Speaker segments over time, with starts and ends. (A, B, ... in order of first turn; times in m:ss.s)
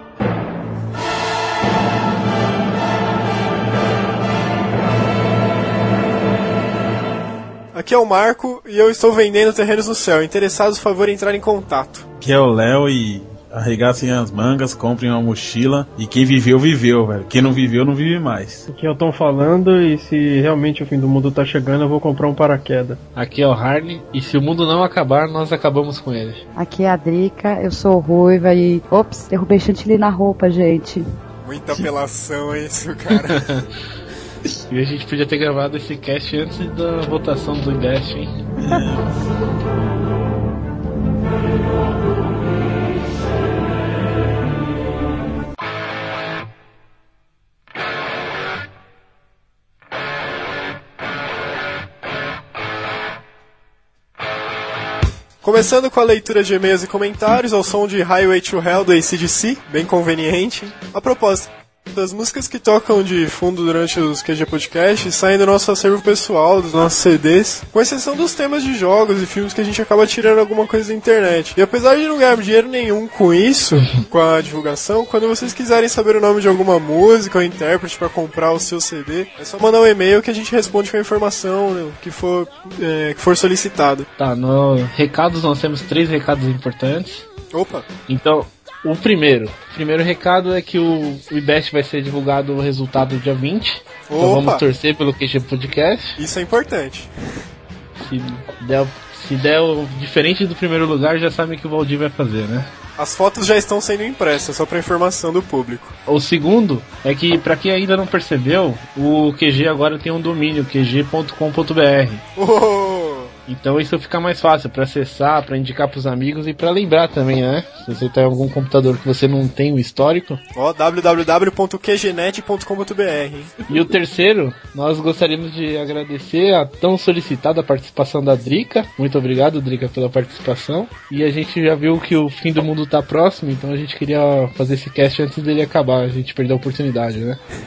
0:07.7-0:12.0 A
0:12.2-0:18.6 B
0:18.7-0:23.0 C
0:23.2-0:26.4 D
0:26.6-0:31.0 E
0:31.4-0:33.5 A
0:33.3-0:33.6 D
0:34.7-0:38.3 D
0:38.6-0:39.1 B
0:55.4-1:24.1 A
1:24.2-1:27.2 D
1:27.5-1:27.8 A
1:28.1-1:36.2 D
1:34.1-1:34.6 A
1:36.2-1:37.1 A
1:38.0-1:42.7 D
1:43.0-1:45.9 A
1:46.1-1:52.2 D
1:52.4-1:53.3 A
1:53.5-2:00.4 D
2:00.5-2:03.5 A
2:03.7-2:17.4 D